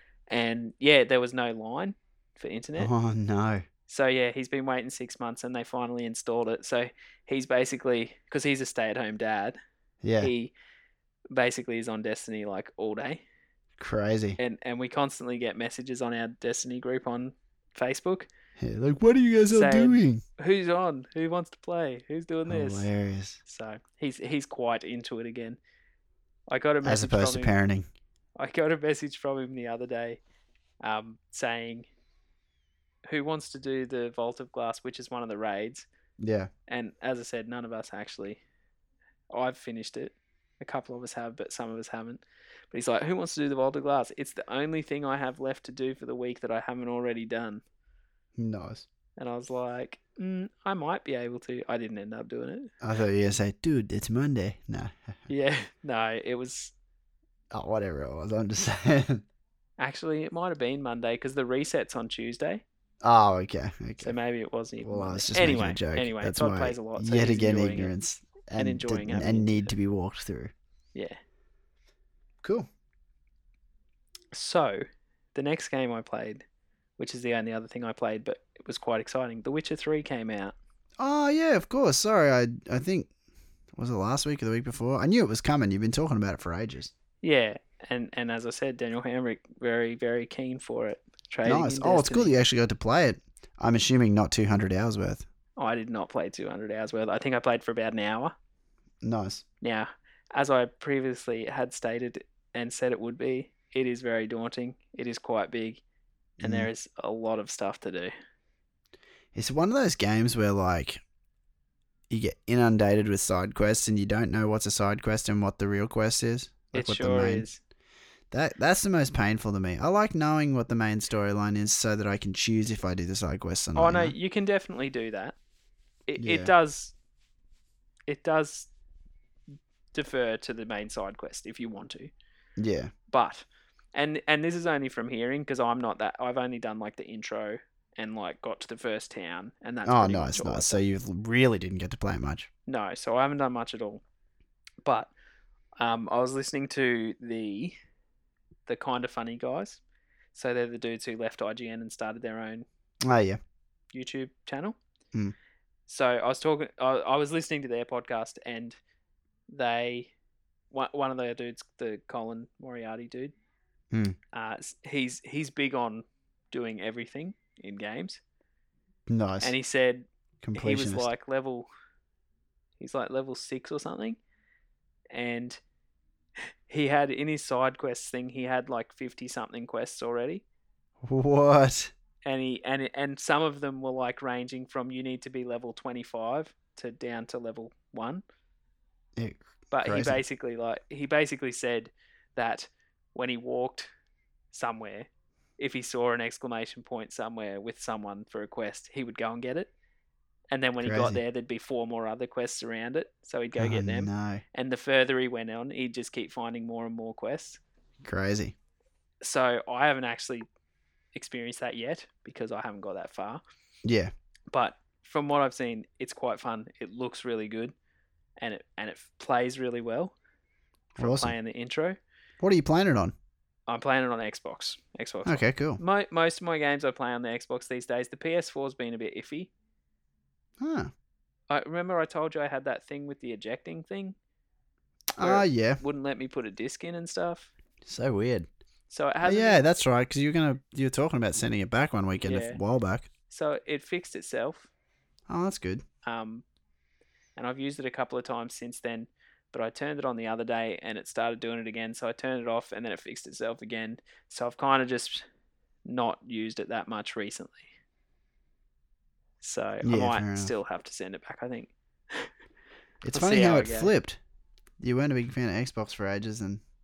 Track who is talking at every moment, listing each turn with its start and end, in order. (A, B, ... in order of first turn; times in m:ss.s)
0:00.3-0:02.9 A
0:02.8-0:03.6 B
0:03.9-0:09.6 A
0:10.0-0:10.3 B
0:10.2-0:10.5 A
0:11.3-0:13.2 A
0:13.8-0:14.4 B
0:14.4-0:18.3 A
0:18.6-0:20.2 B
0:19.5-0:22.9 A
0:22.4-0:23.4 B
0:23.4-0:25.6 A
0:26.5-0:27.5 A
0:26.8-0:27.9 B
0:28.4-0:30.2 A
0:30.8-0:31.8 A
0:33.0-0:35.8 A
0:36.2-0:36.5 B
0:36.7-0:38.4 A
0:39.3-0:47.6 A
0:48.4-0:48.8 B
0:49.2-0:52.7 A
0:52.8-0:55.2 B
0:55.3-0:56.7 A
0:57.5-0:59.2 B
0:59.8-1:02.6 A
1:03.0-1:04.2 B
1:04.0-1:07.9 A
1:04.8-1:10.5 B
1:08.6-1:09.7 A
1:12.4-1:12.7 B
1:14.3-1:14.8 A
1:15.3-1:16.4 A
1:17.0-1:20.5 A
1:21.0-1:23.1 B
1:23.8-1:26.9 B
1:27.2-1:32.3 A
1:31.4-1:35.2 B
1:35.6-1:38.3 A
1:39.0-1:39.4 B
1:39.6-1:45.8 A
1:46.4-1:46.7 B
1:46.4-1:48.1 A
1:49.3-1:51.0 B
1:52.1-1:57.5 B
1:56.7-1:57.6 A
1:58.3-2:04.1 B
2:03.7-2:05.3 A
2:06.1-2:06.9 A
2:06.2-2:06.5 B
2:08.1-2:08.7 A
2:09.9-2:12.1 A
2:12.6-2:12.9 B
2:13.1-2:20.8 A
2:19.8-2:22.5 B
2:22.6-2:24.0 A
2:24.8-2:25.1 A
2:25.8-2:27.7 A
2:28.6-2:29.8 A
2:30.3-2:32.6 A
2:33.0-2:33.4 B
2:33.9-2:34.8 A
2:35.9-2:38.7 A
2:39.5-2:40.1 A
2:40.7-2:43.3 A
2:43.9-2:44.2 B
2:44.3-2:48.2 A
2:49.1-2:49.5 B
2:49.4-2:51.7 A
2:50.4-2:51.1 B
2:52.8-2:54.2 A
2:55.1-2:55.6 A
2:56.7-3:00.4 A
3:01.0-3:01.9 B
3:02.2-3:08.2 A
3:09.2-3:10.2 B
3:09.7-3:13.9 A
3:14.5-3:19.7 A
3:20.5-3:27.6 A
3:20.8-3:21.2 B
3:23.6-3:24.4 B
3:28.0-3:28.5 B
3:29.2-3:30.4 A
3:31.1-3:33.4 A
3:33.8-3:34.1 B
3:34.5-3:37.7 A
3:38.4-3:40.1 A
3:41.0-3:41.3 B
3:41.0-3:42.0 A
3:42.4-3:43.1 B
3:43.7-3:49.5 A
3:45.2-3:45.8 B
3:50.6-3:50.9 B
3:51.5-3:54.2 A
3:55.1-3:55.8 B
3:55.2-3:57.5 A
3:57.8-3:58.5 B
3:58.9-3:59.6 A
3:59.2-4:03.1 B
4:02.2-4:02.6 A
4:03.3-4:04.7 A
4:05.3-4:05.8 B
4:06.0-4:06.4 A
4:07.4-4:15.2 A
4:15.8-4:17.7 A
4:19.4-4:22.3 A
4:19.8-4:20.5 B
4:23.0-4:24.2 B
4:23.1-4:23.9 A
4:24.8-4:26.6 B